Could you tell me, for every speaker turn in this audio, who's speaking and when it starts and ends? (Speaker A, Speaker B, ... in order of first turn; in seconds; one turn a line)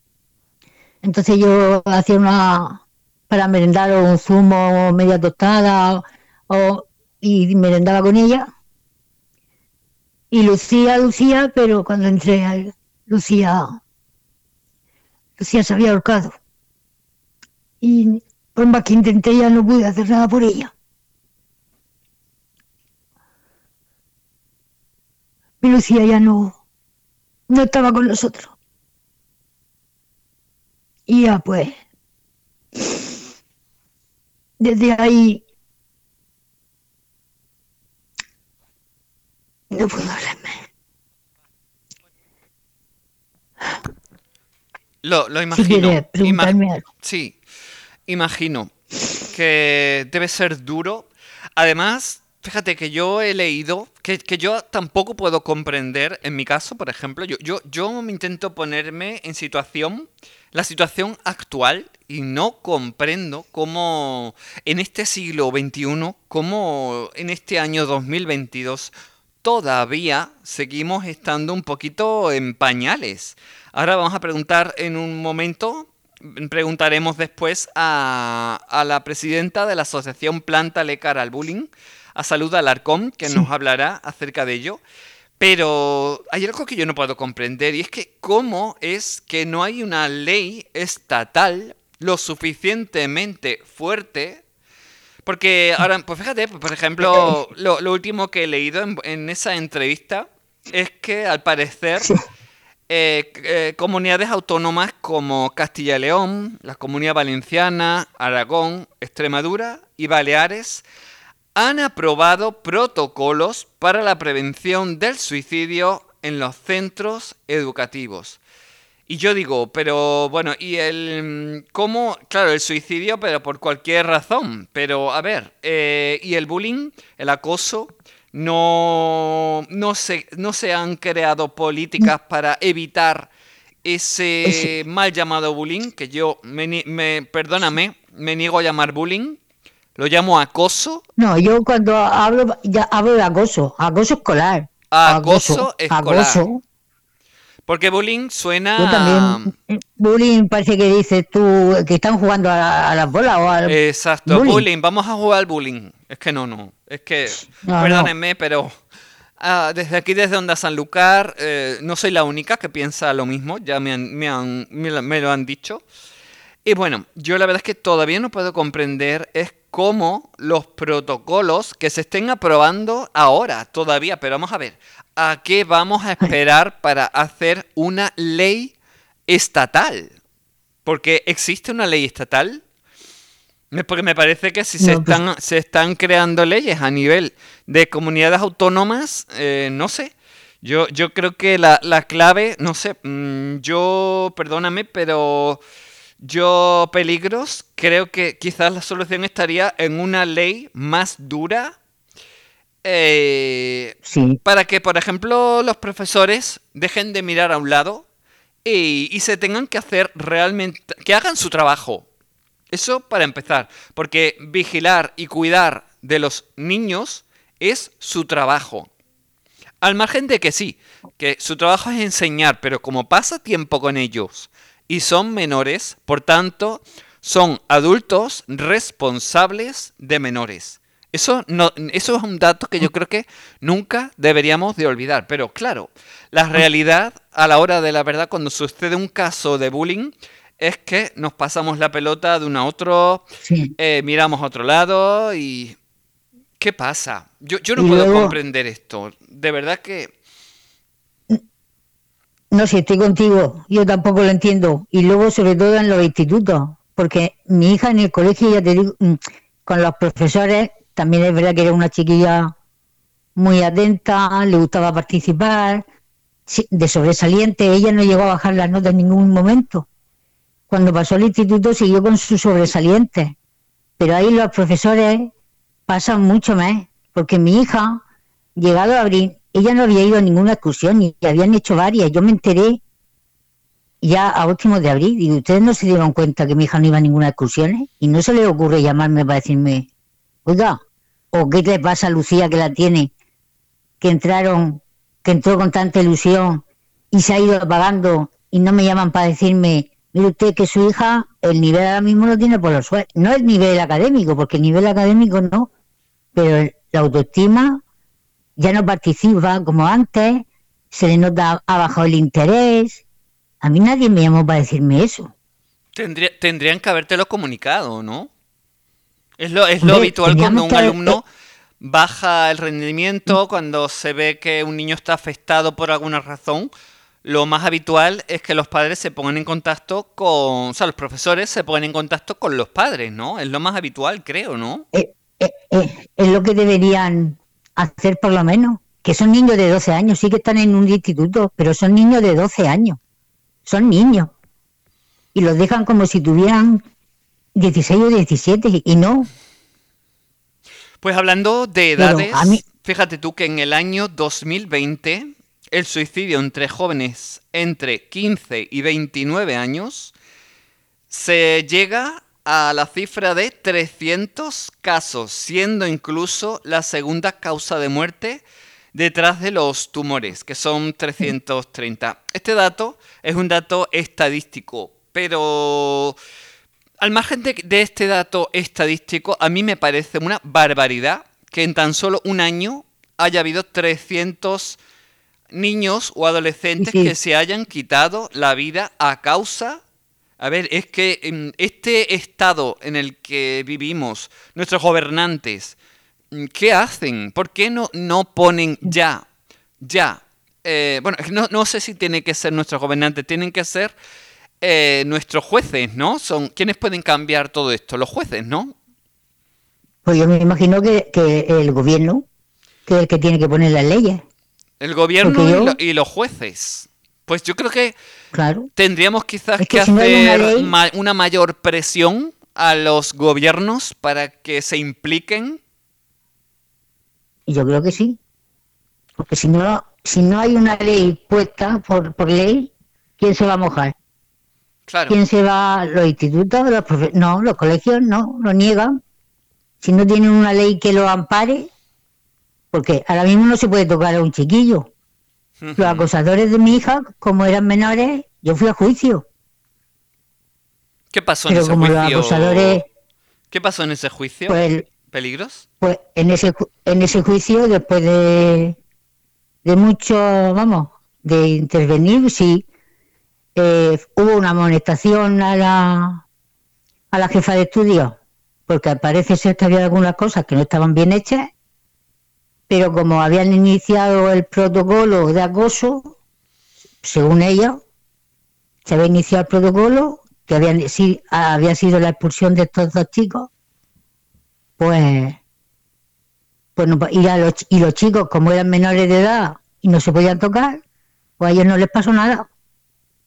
Speaker A: 1.0-8.5
Speaker A: 10.3-13.8
Speaker A: 15.4-16.4
Speaker A: 17.8-20.7
Speaker A: 25.6-26.6
Speaker A: 27.5-28.5
Speaker A: 31.1-31.8
Speaker A: 32.8-33.1
Speaker A: 34.6-35.4
Speaker A: 39.7-40.6
Speaker B: 45.0-47.4
Speaker A: 45.5-46.9
Speaker B: 48.1-48.7
Speaker B: 49.3-68.9
Speaker B: 69.4-84.8
Speaker B: 85.4-94.4
Speaker B: 95.2-102.2
Speaker B: 102.9-110.8
Speaker B: 111.5-118.4
Speaker B: 119.1-133.3
Speaker B: 133.8-139.4
Speaker B: 140.0-141.1
Speaker A: 141.2-146.6
Speaker B: 144.9-146.4
Speaker B: 147.7-149.5
Speaker A: 148.8-154.6
Speaker B: 153.7-158.7
Speaker A: 157.4-158.1
Speaker B: 159.4-165.8
Speaker B: 166.7-178.7
Speaker B: 179.3-180.1
Speaker B: 180.8-182.6
Speaker B: 183.7-195.6
Speaker A: 184.8-185.2
Speaker B: 196.2-201.8
Speaker B: 202.8-208.1
Speaker A: 204.1-204.4
Speaker B: 208.7-212.1
Speaker B: 212.7-218.9
Speaker B: 219.8-243.2
Speaker A: 243.4-243.7
Speaker B: 243.8-245.8
Speaker B: 246.6-250.1
Speaker A: 247.8-248.4
Speaker A: 252.5-262.5
Speaker A: 263.4-265.9
Speaker A: 266.5-269.9
Speaker A: 270.7-273.3
Speaker A: 274.0-275.3
Speaker A: 275.9-278.0
Speaker A: 278.6-282.8
Speaker A: 284.0-289.9
Speaker A: 290.5-290.8
Speaker A: 291.3-293.1
Speaker A: 294.0-305.7
Speaker A: 306.4-307.8
Speaker A: 308.6-313.0
Speaker A: 313.6-315.3
Speaker B: 315.9-318.3
Speaker B: 319.4-321.2
Speaker A: 319.8-321.2
Speaker B: 321.8-326.7
Speaker B: 327.2-334.9
Speaker A: 334.9-343.0
Speaker A: 343.7-344.3
Speaker A: 345.3-346.9
Speaker A: 347.6-349.3
Speaker B: 351.0-360.1
Speaker A: 352.0-352.6
Speaker B: 361.1-368.4
Speaker B: 368.9-376.2
Speaker B: 377.0-384.8
Speaker B: 385.5-389.8
Speaker A: 386.8-387.1
Speaker B: 390.4-395.8
Speaker B: 396.3-399.2
Speaker B: 399.8-403.9
Speaker B: 404.6-408.7
Speaker A: 410.1-412.3
Speaker A: 412.9-414.2
Speaker B: 414.8-417.9
Speaker A: 415.2-415.8
Speaker A: 418.3-418.7
Speaker B: 418.8-425.6
Speaker A: 419.6-420.7
Speaker A: 427.5-428.2
Speaker A: 429.2-433.9
Speaker B: 434.9-435.2
Speaker A: 435.1-439.0
Speaker A: 439.8-441.7
Speaker A: 442.7-444.9
Speaker B: 445.6-446.1
Speaker A: 445.8-449.2
Speaker B: 451.1-452.8
Speaker A: 451.5-452.9
Speaker B: 453.5-455.6
Speaker A: 454.5-454.9
Speaker A: 455.8-458.8
Speaker A: 459.6-462.7
Speaker A: 463.6-466.2
Speaker A: 467.1-471.5
Speaker A: 472.7-476.1
Speaker A: 477.0-477.8
Speaker A: 478.9-483.5
Speaker A: 484.8-485.4
Speaker A: 486.8-490.8
Speaker A: 491.4-492.5